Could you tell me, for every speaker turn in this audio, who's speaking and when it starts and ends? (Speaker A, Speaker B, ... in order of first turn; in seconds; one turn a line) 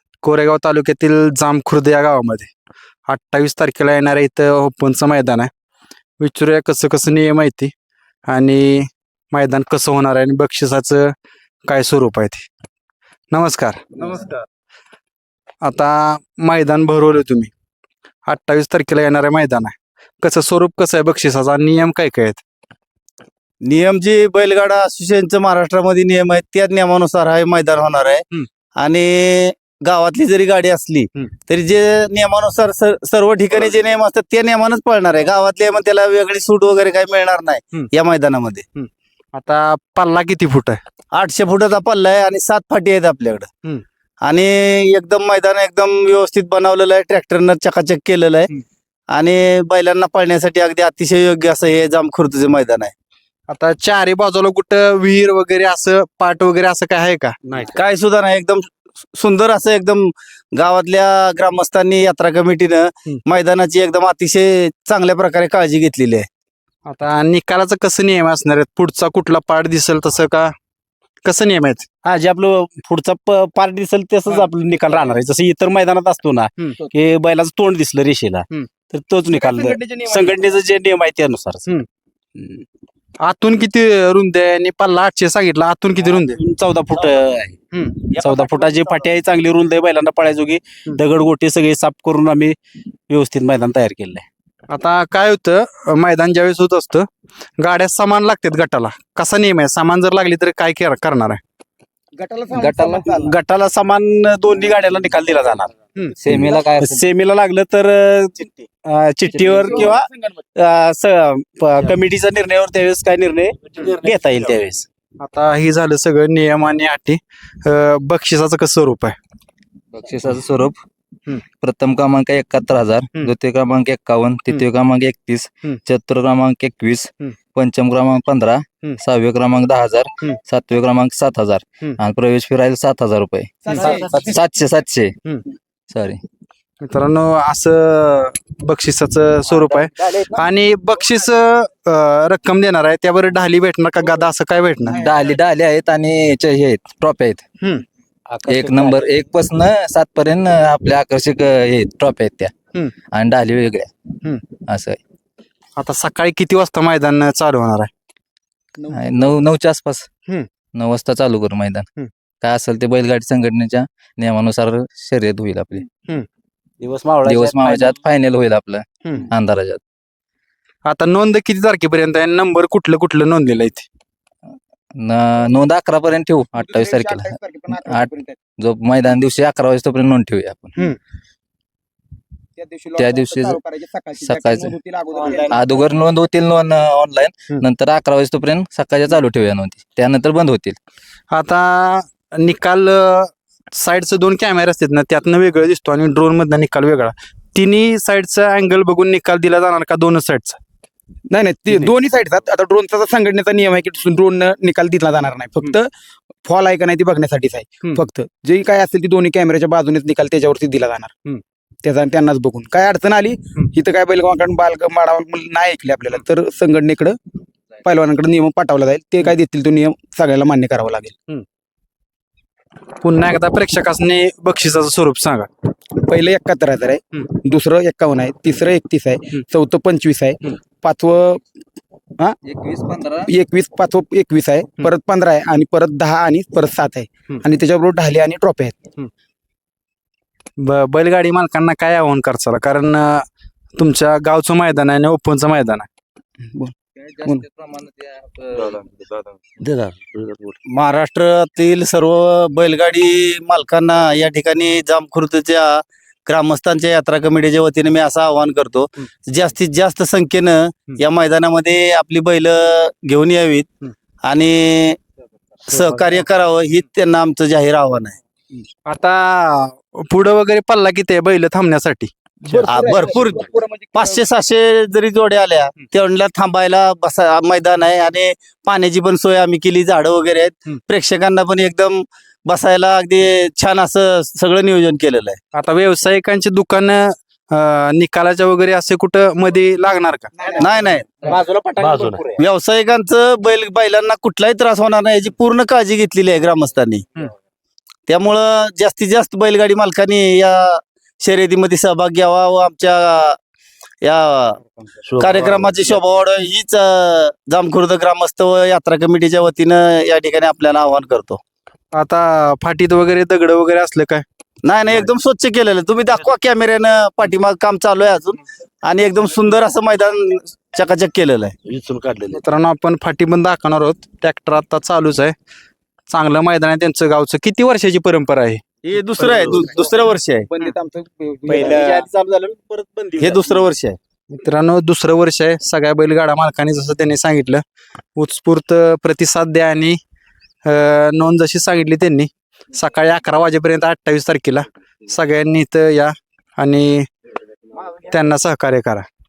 Speaker A: 0.2-2.5
Speaker A: 3.1-5.5
Speaker A: 6.2-7.7
Speaker A: 8.3-11.1
Speaker A: 11.7-12.5
Speaker A: 13.3-13.8
Speaker A: 15.6-17.5
Speaker A: 18.3-22.4
Speaker B: 23.6-28.2
Speaker B: 28.8-38.6
Speaker A: 38.8-40.8
Speaker B: 41.1-43.5
Speaker B: 44.2-48.5
Speaker B: 49.1-52.9
Speaker A: 53.5-57.3
Speaker B: 57.6-66.3
Speaker A: 66.9-70.5
Speaker A: 71.2-71.9
Speaker C: 72.0-81.6
Speaker D: 79.3-80.5
Speaker A: 83.2-86.4
Speaker C: 86.0-87.6
Speaker D: 87.9-89.0
Speaker C: 88.1-92.6
Speaker C: 93.1-94.2
Speaker A: 94.7-97.1
Speaker A: 97.6-101.4
Speaker D: 102.2-103.4
Speaker C: 103.3-105.7
Speaker E: 106.2-107.0
Speaker C: 106.8-110.0
Speaker E: 109.3-109.9
Speaker D: 109.7-110.4
Speaker C: 110.6-114.8
Speaker A: 115.2-119.2
Speaker E: 119.9-120.8
Speaker E: 121.6-135.1
Speaker D: 133.6-134.2
Speaker E: 135.9-136.2
Speaker A: 136.8-145.0
Speaker D: 144.8-145.3
Speaker E: 145.0-147.4
Speaker C: 148.3-149.1
Speaker E: 148.4-152.5
Speaker E: 153.1-153.9
Speaker E: 154.7-155.0
Speaker A: 155.8-157.9
Speaker E: 158.9-160.1
Speaker E: 160.7-161.9
Speaker E: 162.4-165.9
Speaker C: 166.8-168.0
Speaker E: 167.2-169.8
Speaker A: 170.8-173.9
Speaker E: 175.0-180.7
Speaker D: 176.6-178.4
Speaker D: 182.6-185.8
Speaker E: 183.0-183.6
Speaker E: 184.2-184.8
Speaker B: 185.2-185.7
Speaker E: 185.5-190.8
Speaker A: 191.3-200.6
Speaker D: 201.3-205.9
Speaker D: 206.4-211.2
Speaker D: 211.8-217.2
Speaker D: 217.8-221.2
Speaker A: 223.0-225.5
Speaker D: 226.0-231.4
Speaker E: 232.5-233.3
Speaker D: 233.3-238.8
Speaker A: 240.6-243.2
Speaker A: 243.8-245.9
Speaker D: 246.4-247.4
Speaker E: 247.0-248.8
Speaker C: 249.6-250.5
Speaker B: 250.7-263.7
Speaker B: 264.2-265.0
Speaker B: 265.7-268.1
Speaker A: 268.9-272.7
Speaker D: 272.5-274.2
Speaker B: 272.7-285.4
Speaker A: 285.5-290.3
Speaker D: 290.4-290.9
Speaker B: 290.6-291.3
Speaker C: 291.3-292.3
Speaker B: 292.4-297.0
Speaker B: 298.1-303.4
Speaker B: 304.0-304.6
Speaker C: 305.1-305.9
Speaker B: 305.2-311.4
Speaker A: 311.9-314.2
Speaker B: 314.6-321.5
Speaker C: 321.6-322.4
Speaker A: 322.3-325.3
Speaker A: 326.1-328.6
Speaker B: 328.9-330.5
Speaker D: 330.5-332.0
Speaker C: 331.5-333.7
Speaker B: 333.2-334.0
Speaker A: 334.3-337.6
Speaker A: 338.1-340.0
Speaker A: 340.6-347.1
Speaker A: 348.1-349.1